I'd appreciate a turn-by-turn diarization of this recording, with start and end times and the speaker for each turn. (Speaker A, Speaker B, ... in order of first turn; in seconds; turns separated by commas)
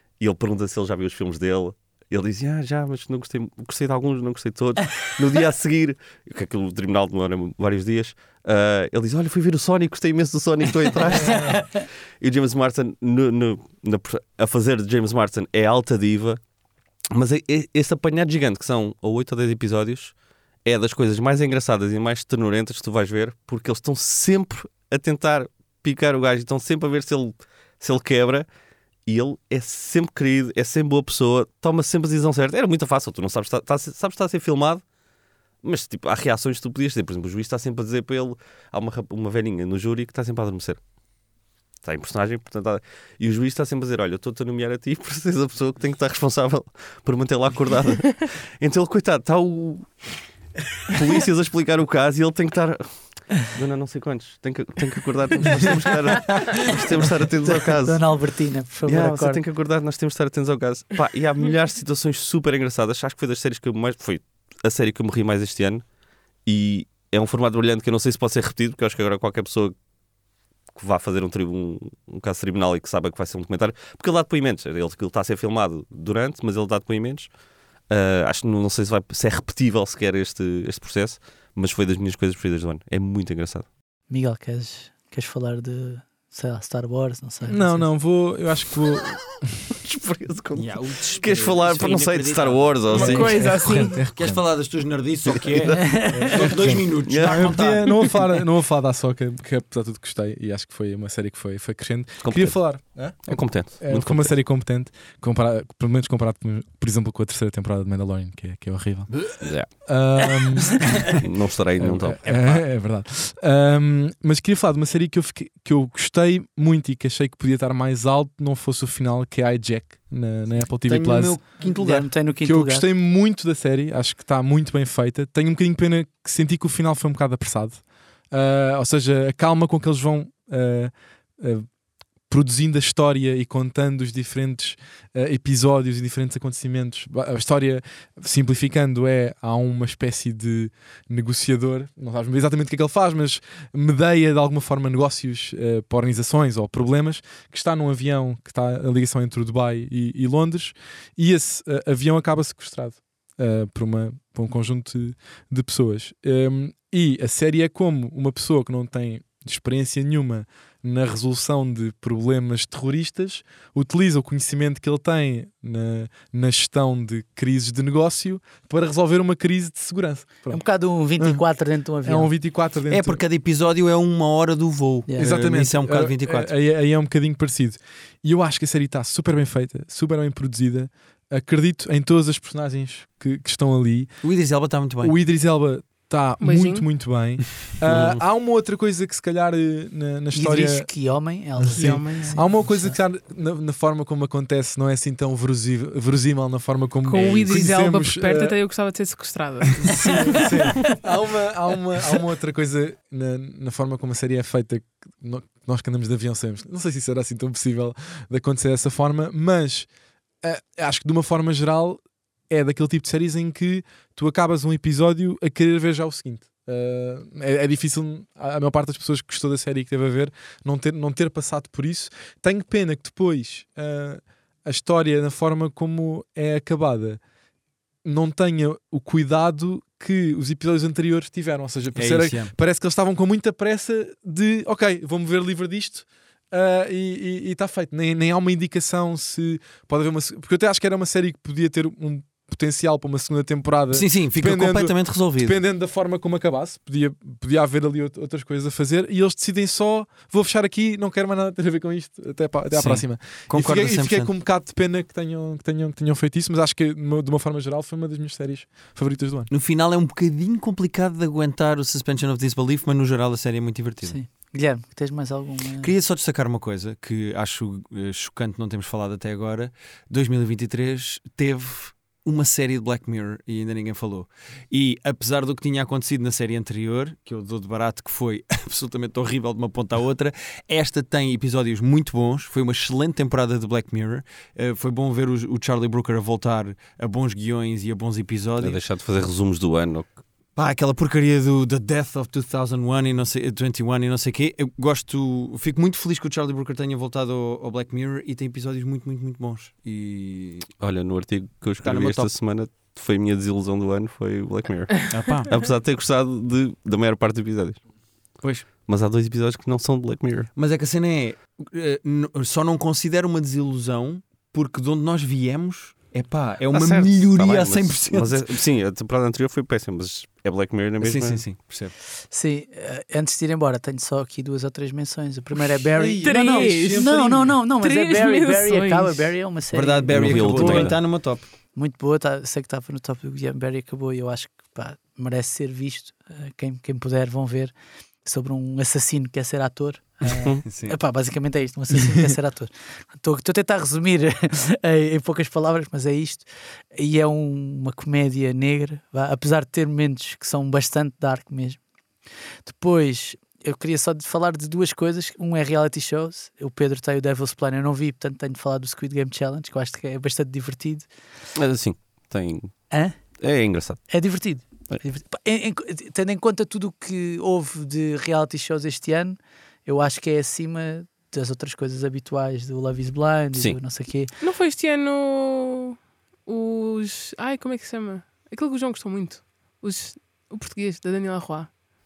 Speaker A: 0.2-16.4, Speaker A: 17.1-20.1, Speaker A: 20.6-28.5, Speaker A: 29.1-34.8, Speaker A: 35.6-40.8, Speaker A: 41.8-50.0, Speaker A: 50.9-58.0, Speaker B: 57.4-59.4, Speaker A: 58.9-65.8, Speaker A: 66.5-69.7, Speaker A: 70.7-77.3, Speaker A: 77.9-83.7, Speaker B: 84.1-87.9, Speaker C: 87.5-89.4, Speaker A: 89.8-93.4, Speaker D: 90.5-93.5, Speaker E: 92.9-94.0, Speaker C: 93.0-94.4, Speaker D: 94.1-98.2, Speaker A: 95.5-95.8, Speaker B: 95.7-96.3, Speaker C: 96.1-111.1, Speaker A: 97.0-98.1, Speaker A: 102.2-102.6, Speaker A: 103.2-104.3, Speaker A: 109.4-109.7, Speaker A: 111.1-112.6, Speaker C: 111.8-121.4, Speaker D: 112.2-112.6, Speaker D: 120.9-122.1, Speaker B: 121.6-122.9, Speaker C: 122.4-131.6, Speaker C: 132.3-170.6, Speaker B: 170.5-172.3, Speaker C: 171.2-171.4, Speaker C: 172.0-173.2, Speaker D: 172.9-176.5, Speaker C: 175.2-184.1, Speaker D: 184.2-185.1, Speaker C: 185.0-190.9, Speaker E: 186.4-186.9, Speaker A: 187.9-188.2, Speaker B: 190.3-193.0, Speaker C: 191.6-198.6, Speaker E: 191.7-192.5, Speaker E: 197.0-201.0, Speaker C: 199.8-209.9, Speaker C: 210.4-227.2, Speaker C: 228.0-259.5, Speaker D: 231.9-232.5, Speaker D: 243.9-245.6, Speaker D: 252.7-254.3, Speaker D: 259.5-264.1, Speaker B: 264.0-265.9, Speaker D: 265.8-288.8, Speaker A: 288.6-290.1, Speaker D: 290.6-300.7, Speaker A: 300.8-307.8, Speaker D: 301.8-302.3, Speaker D: 305.1-305.5, Speaker D: 308.4-308.7, Speaker A: 308.8-310.5, Speaker D: 310.5-318.5, Speaker A: 316.7-321.4, Speaker D: 321.0-321.9, Speaker B: 322.3-331.1, Speaker C: 325.9-327.6, Speaker E: 326.2-329.3, Speaker D: 329.7-331.4, Speaker A: 330.1-330.9, Speaker B: 331.7-337.7, Speaker B: 338.2-351.8, Speaker A: 340.3-340.6, Speaker D: 340.6-341.0, Speaker B: 352.6-361.1, Speaker A: 361.5-364.1, Speaker B: 362.9-363.1, Speaker B: 364.1-374.3, Speaker E: 374.4-381.7